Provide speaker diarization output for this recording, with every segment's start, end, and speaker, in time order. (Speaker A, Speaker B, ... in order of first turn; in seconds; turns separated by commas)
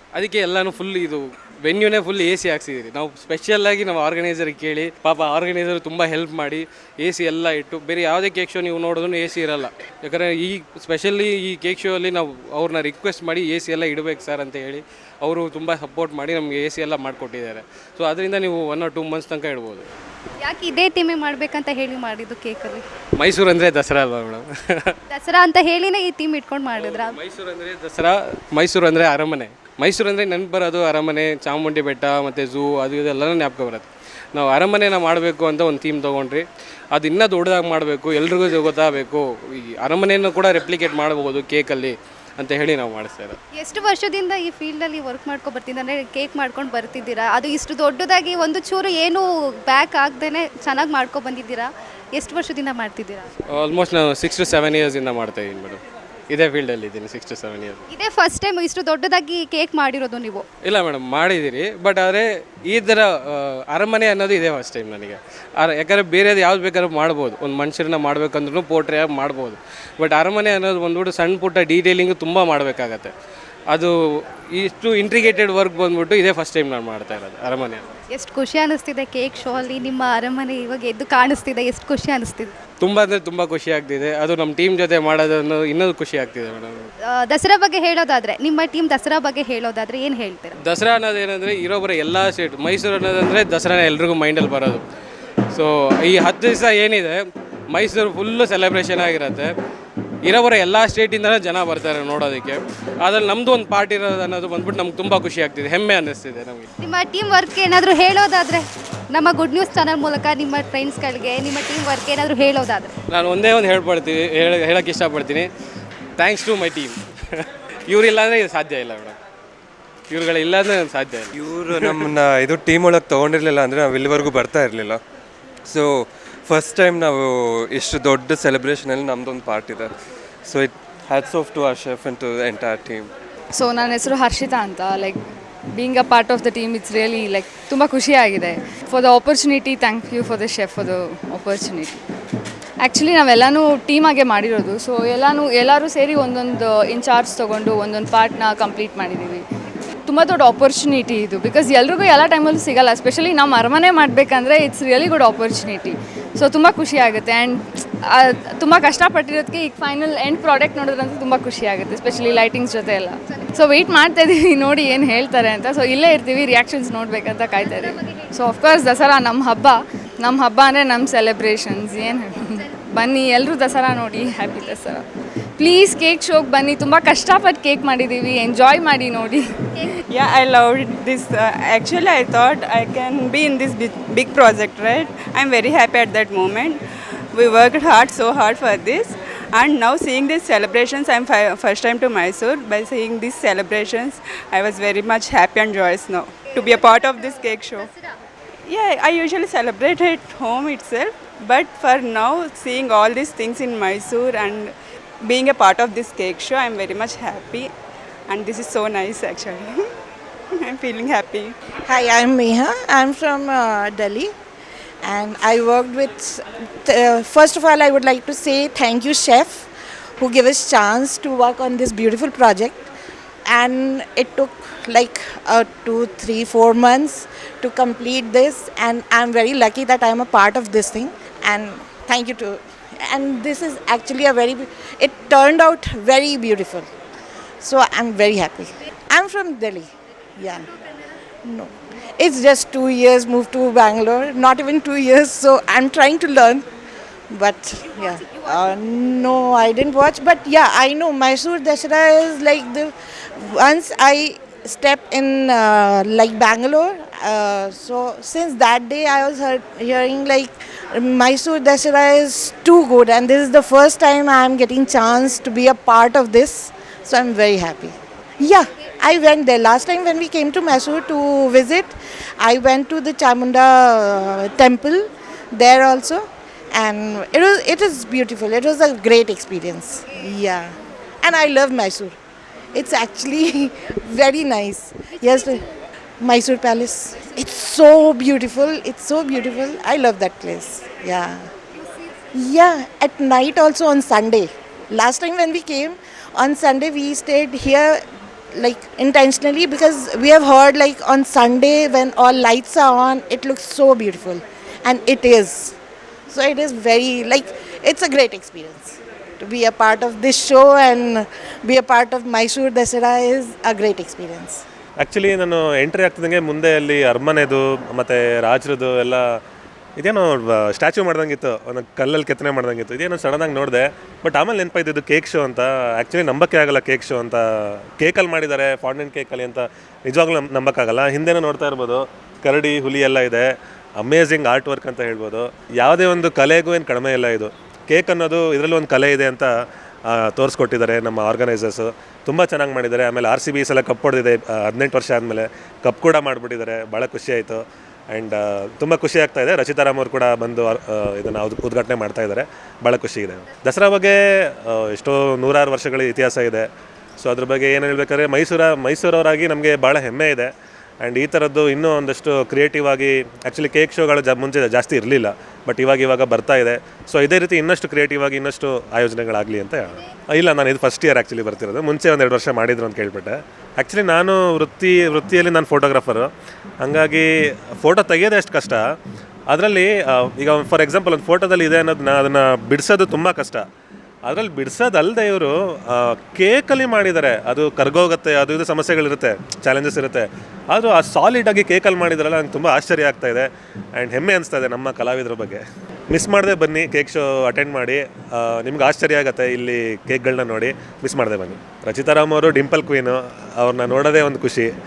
Speaker A: 0.1-19.9, Speaker B: 20.4-22.9, Speaker A: 23.2-25.0, Speaker B: 25.1-27.2, Speaker A: 26.7-39.3, Speaker A: 39.8-43.4, Speaker B: 43.5-53.3, Speaker A: 53.5-57.8, Speaker B: 57.9-60.5, Speaker A: 60.6-73.1, Speaker A: 74.5-77.9, Speaker B: 78.1-82.5, Speaker A: 82.8-86.9, Speaker B: 87.0-90.6, Speaker A: 90.6-94.8, Speaker A: 95.5-97.2, Speaker A: 97.7-99.5, Speaker A: 100.2-106.7, Speaker B: 106.8-112.9, Speaker A: 113.1-115.5, Speaker A: 116.2-119.2, Speaker A: 120.1-122.0, Speaker C: 121.3-125.0, Speaker C: 125.7-129.9, Speaker C: 130.4-133.1, Speaker D: 133.6-135.2, Speaker D: 135.8-142.0, Speaker D: 142.8-149.4, Speaker D: 150.1-175.0, Speaker B: 167.7-168.3, Speaker D: 175.6-179.5, Speaker E: 180.1-186.8, Speaker E: 187.3-197.9, Speaker E: 198.7-204.7, Speaker E: 205.2-207.7, Speaker E: 208.3-209.8, Speaker E: 210.6-211.5, Speaker F: 211.8-214.3, Speaker F: 215.0-222.9, Speaker F: 223.5-236.9, Speaker F: 237.6-240.7, Speaker F: 241.4-246.7, Speaker F: 247.3-282.2, Speaker F: 282.8-285.7, Speaker F: 286.2-291.5, Speaker F: 292.4-298.0, Speaker F: 298.6-305.8, Speaker F: 306.3-314.6, Speaker G: 315.0-319.2, Speaker G: 320.0-339.5, Speaker G: 340.1-356.7, Speaker G: 357.2-360.5, Speaker G: 361.0-376.3, Speaker G: 376.8-377.3, Speaker G: 377.8-378.8, Speaker G: 379.5-383.6, Speaker G: 384.2-404.7